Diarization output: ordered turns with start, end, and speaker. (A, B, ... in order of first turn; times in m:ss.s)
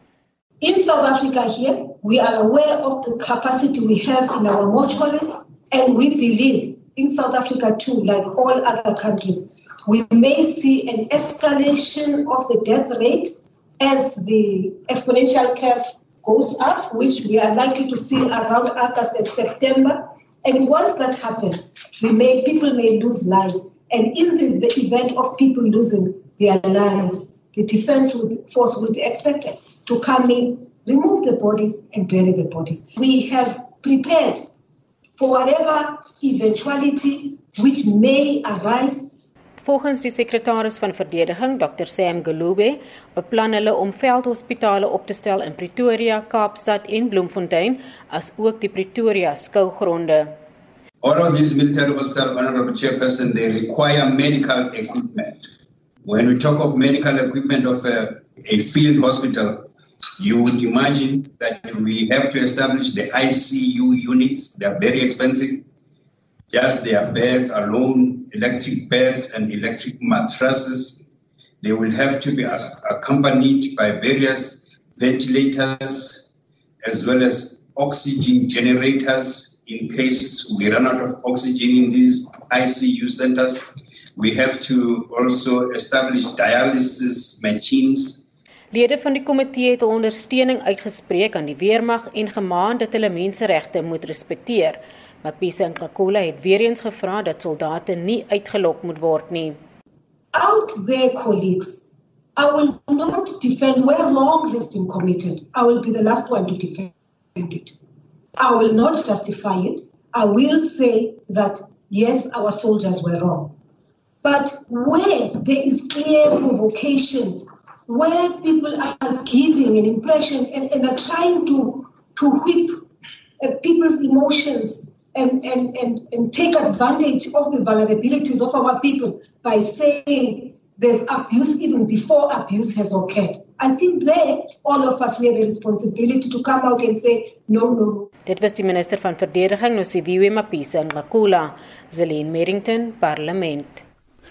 0:00.6-0:34.4 A
0:35.2-0:39.1 A
0:39.6-0:50.4 B
0:51.0-0:55.5 C
0:56.0-1:05.6 C
1:06.5-1:11.0 C
1:11.6-1:16.3 C
1:16.8-1:28.3 C
1:28.7-1:39.6 B
1:40.3-1:47.8 A
1:48.4-1:53.5 A
1:54.2-2:02.8 A
2:03.4-2:18.1 A
2:18.3-2:23.8 B